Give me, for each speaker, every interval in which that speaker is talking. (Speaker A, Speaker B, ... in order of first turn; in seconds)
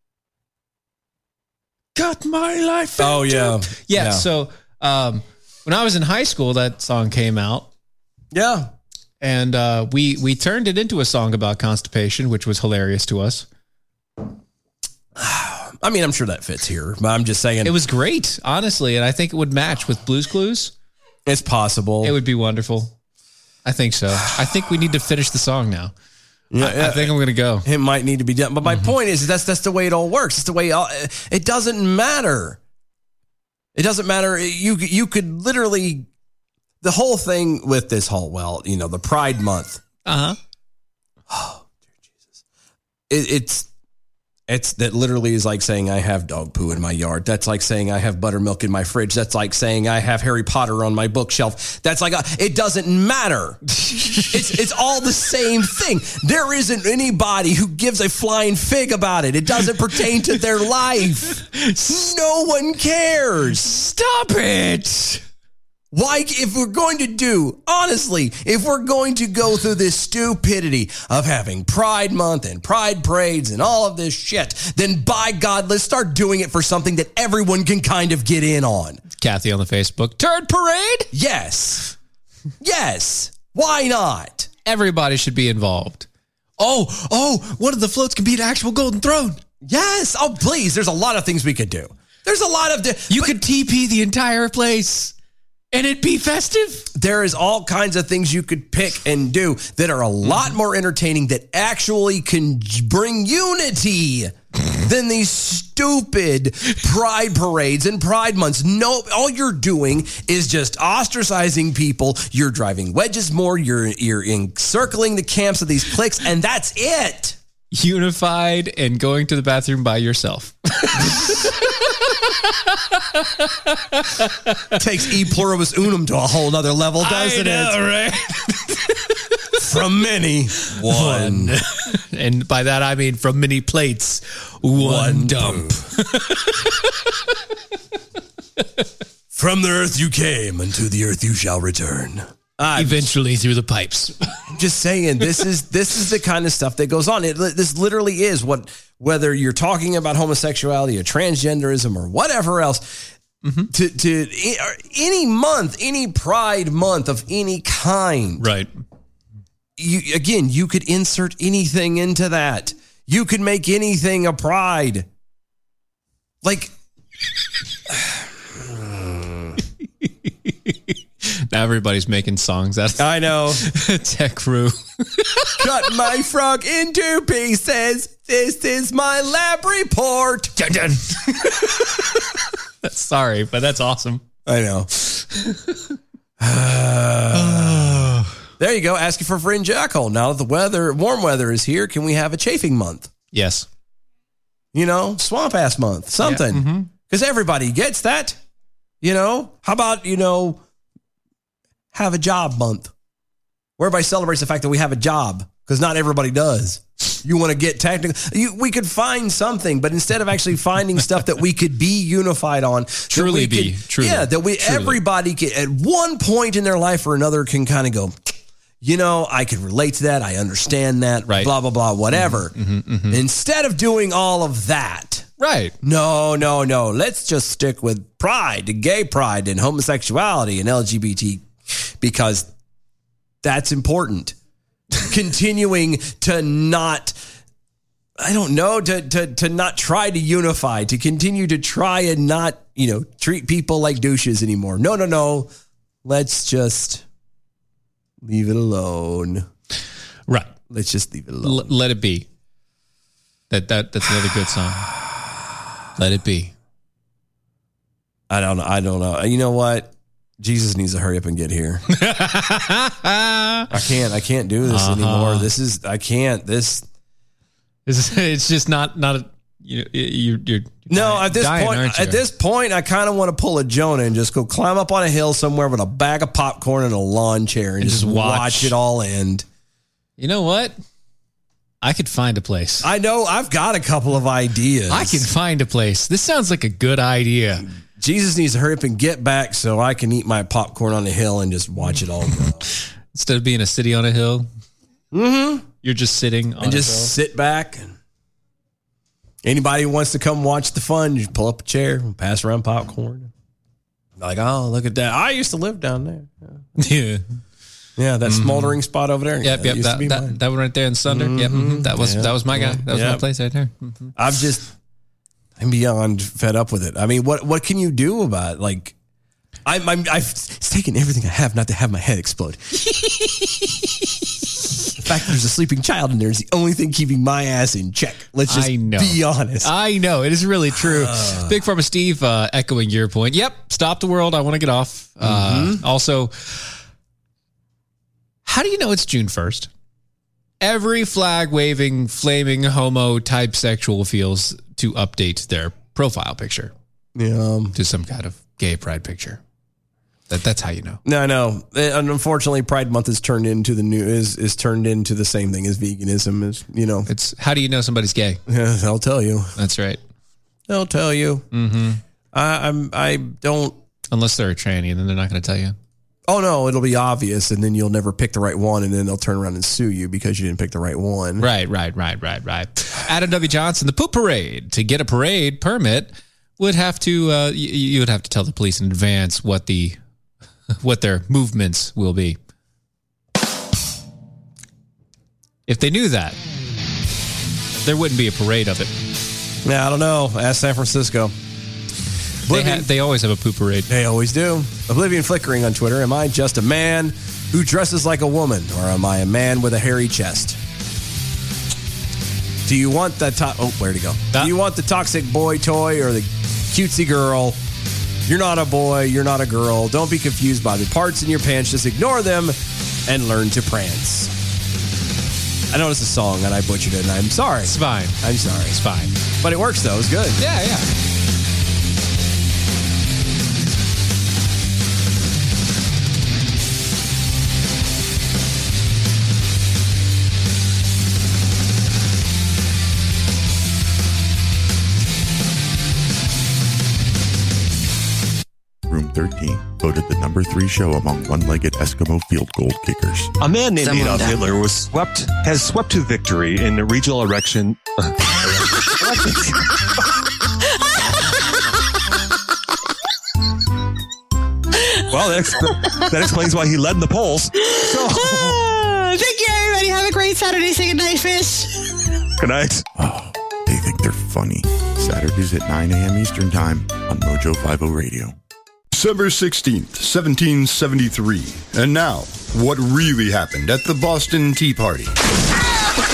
Speaker A: 1.9-7.7, 9.2-13.5, 17.6-20.7, 22.0-22.9, 23.6-25.9, 26.6-27.7, 28.6-28.9, 40.1-40.4, 54.0-54.3, 63.6-65.2, 79.2-81.1, 84.7-86.1, 86.6-89.4, 93.1-95.1, 95.7-96.9, 100.2-100.5, 117.7-124.8, 127.0-128.9, 130.7-136.9, 142.8-144.4, 153.4-153.7, 158.4-158.7, 170.5-175.6, 180.6-181.7, 182.8-184.2, 185.2-185.6, 187.3-188.3, 193.3-193.7, 196.2-196.9, 213.1-215.0, 222.1-223.2, 225.4-225.7, 250.3-250.5, 251.4-252.3, 253.5-254.9, 256.0-256.5, 261.9-263.7, 264.6-265.5, 267.9-272.2, 277.8-278.7, 280.2-280.8, 281.8-282.9, 284.9-287.7, 293.1-294.5, 295.8-297.1, 306.8-307.2, 308.3-308.8, 309.4-314.1, 323.0-323.5, 328.5-336.7, 338.4-339.7, 340.6-346.7, 347.7-349.4, 350.3-351.0, 357.1-358.4, 359.6-360.0, 361.5-362.0, 364.1-365.8, 371.4-380.0, 380.8-382.4, 385.7-386.4, 387.8-388.9, 392.5-393.9, 417.6-419.2, 420.4-420.9
Speaker B: 3.0-4.2, 8.3-8.7, 15.2-17.8, 21.3-22.1, 26.5-32.6, 33.8-36.1, 36.8-39.8, 41.3-41.7, 43.1-43.7, 44.5-53.6, 54.2-63.7, 65.9-79.0, 81.1-81.9, 82.6-84.5, 89.6-93.4, 96.9-117.4, 124.7-127.8, 129.6-131.6, 134.8-135.8, 139.3-143.1, 144.5-153.1, 153.7-158.4, 159.8-165.1, 166.4-166.7, 167.9-169.6, 173.0-173.7, 175.6-180.6, 184.5-184.9, 186.4-193.1, 194.7-198.4, 199.0-200.6, 201.9-202.9, 203.8-218.3, 218.8-222.5, 223.1-225.3, 225.8-232.5, 233.4-234.3, 235.0-237.2, 238.2-245.5, 246.0-247.0, 248.2-249.5, 250.7-251.8, 258.3-261.8, 263.7-266.9, 270.9-279.4, 282.8-285.3, 288.0-292.7, 295.1-295.7, 296.6-297.9, 299.4-303.3, 304.2-306.6, 308.0-310.4, 311.1-313.2, 314.2-314.7, 315.6-318.9, 319.6-322.6, 325.0-329.7, 330.8-331.6, 335.2-335.8, 347.1-347.8, 351.1-357.1, 358.5-359.5, 360.7-361.5, 362.3-363.8, 366.3-371.5, 389.6-391.4, 392.5-392.9, 393.9-400.6, 402.6-407.6, 408.3-414.3, 415.7-418.8, 419.4-420.4, 455.2-455.8, 457.9-458.6
Speaker C: 438.9-443.3, 463.0-468.3
Speaker D: 443.4-448.1, 455.1-455.5, 456.1-457.5, 462.4-462.8
Speaker E: 458.4-461.4
Speaker F: 468.9-475.1